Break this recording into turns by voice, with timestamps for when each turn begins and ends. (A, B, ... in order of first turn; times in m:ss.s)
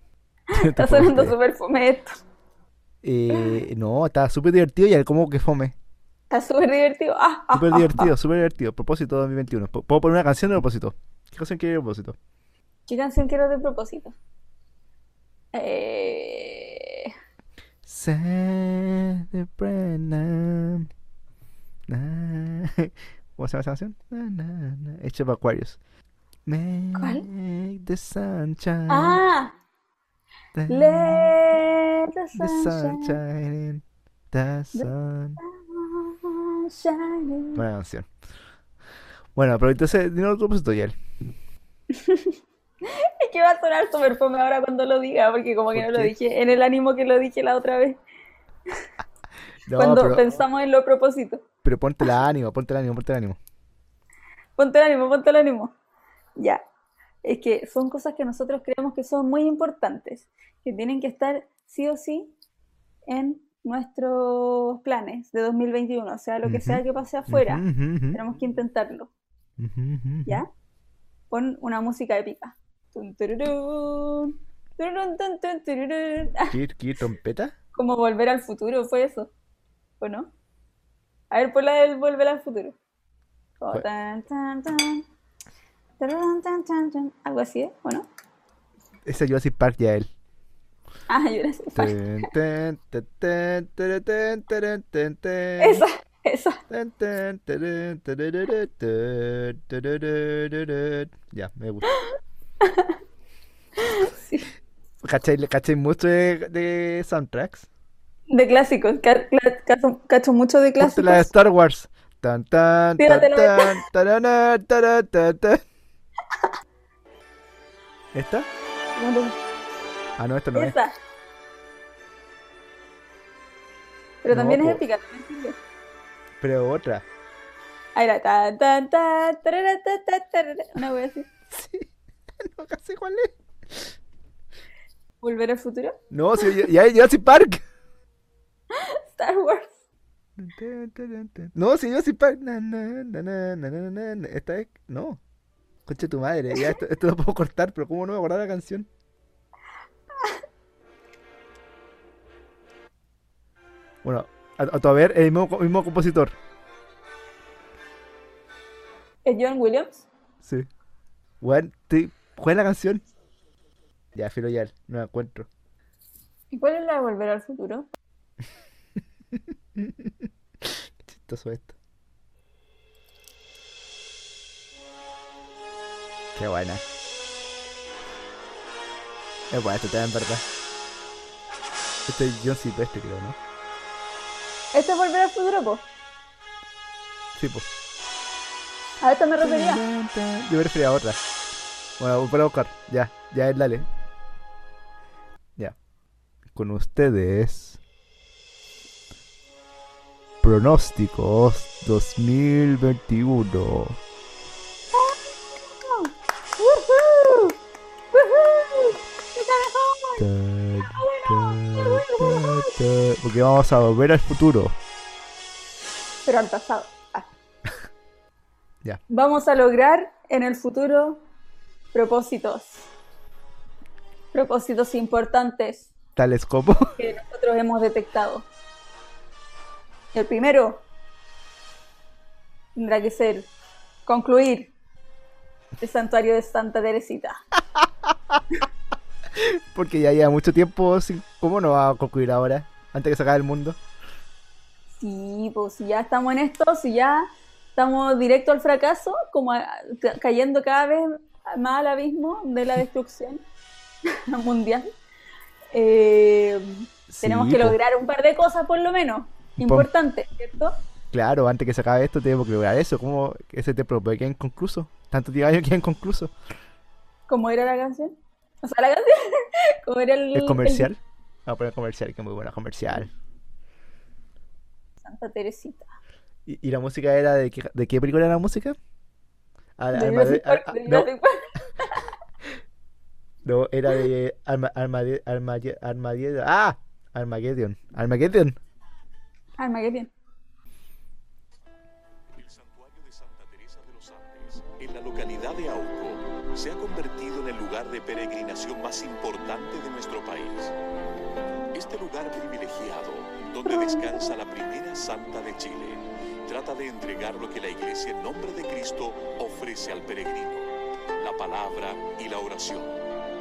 0:00.5-0:02.2 A
0:00.5-0:01.4 B
0:03.0-0:05.8 B
0:06.3-0:08.1 A
0:07.5-0:12.2 B
0:12.9-0:14.2 A
0:15.5-0:17.1 A
0:17.8-0:20.9 B
0:21.9-0:25.8 B
0:26.5-0:29.2 B
0:27.0-0:27.3 A
0:28.9-0:29.6 A
0:30.6-0:31.3 B
0:30.7-0:33.2 A
0:32.4-0:35.4 B
0:34.7-0:37.6 A
0:37.6-0:38.1 B
0:39.4-0:41.0 B
0:41.9-0:48.0 A
0:45.7-0:46.1 B
0:49.7-0:50.4 B
0:49.7-0:51.4 A
0:51.6-0:53.4 B
0:54.6-0:55.7 A
0:56.4-0:56.6 A
0:57.2-1:02.3 A
1:03.1-1:09.1 A
1:06.4-1:08.2 B
1:09.6-1:10.4 B
1:11.3-1:16.6 A
1:16.5-1:17.6 B
1:17.8-1:19.3 A
1:20.0-1:20.3 A
1:21.3-1:22.8 A
1:23.6-1:25.0 A
1:26.0-1:28.1 A
1:29.0-1:30.1 B
1:31.1-1:32.3 A
1:31.8-1:35.8 B
1:35.6-1:36.6 A
1:36.7-1:41.9 B
1:42.6-1:43.0 A
1:43.8-1:44.5 A
1:45.0-1:47.7 B
1:48.3-1:51.3 A
1:50.8-1:55.6 B
1:53.0-1:53.8 A
1:58.1-1:58.5 B
1:59.0-1:59.4 A
2:00.2-2:00.8 B
2:00.6-2:00.9 A
2:04.2-2:05.6 A
2:04.3-2:04.8 B
2:06.4-2:07.0 B
2:08.0-2:11.3 A
2:11.5-2:11.9 B
2:12.4-2:13.9 B
2:15.2-2:16.6 A
2:16.1-2:17.6 B
2:18.7-2:19.8 A
2:20.4-2:25.2 B
2:25.9-2:28.9 B
2:34.0-2:36.4 B
2:39.2-2:40.1 A
2:40.4-2:40.7 B
2:41.4-2:43.0 B
2:44.2-2:45.5 B
2:46.5-2:47.9 A
2:49.3-2:51.8 B
2:56.4-2:56.8 B
2:59.5-3:00.4 B
3:02.1-3:03.4 B
3:04.7-3:05.8 A
3:07.4-3:07.7 B
3:09.0-3:09.8 A
3:09.4-3:11.2 B
3:12.0-3:13.9 B
3:16.5-3:17.8 B
3:20.4-3:24.0 B
3:24.9-3:27.6 A
3:28.1-3:30.3 A
3:30.2-3:34.8 B
3:30.8-3:32.8 A
3:36.3-3:37.3 A
3:39.1-3:41.2 A
3:41.9-3:42.9 A
3:44.3-3:45.9 A
3:46.2-3:47.0 B
3:47.0-3:48.5 A
3:50.1-3:50.8 A
3:52.8-3:53.5 A
3:54.1-3:54.7 A
3:55.8-3:57.4 A
3:57.8-3:58.4 B
3:59.4-4:03.8 B
4:05.0-4:13.4 A
4:14.1-4:14.9 A
4:15.7-4:20.8 A
4:17.1-4:17.8 B
4:19.6-4:19.9 B
4:21.1-4:26.3 B
4:27.3-4:30.9 A
4:30.4-4:33.1 B
4:35.0-4:35.9 A
4:36.5-4:38.8 B
4:39.8-4:41.1 B
4:39.9-4:42.1 A
4:43.4-4:48.6 B
4:49.6-4:50.1 A
4:52.3-5:00.8 C
5:01.7-5:13.0 C
5:03.7-5:04.3 A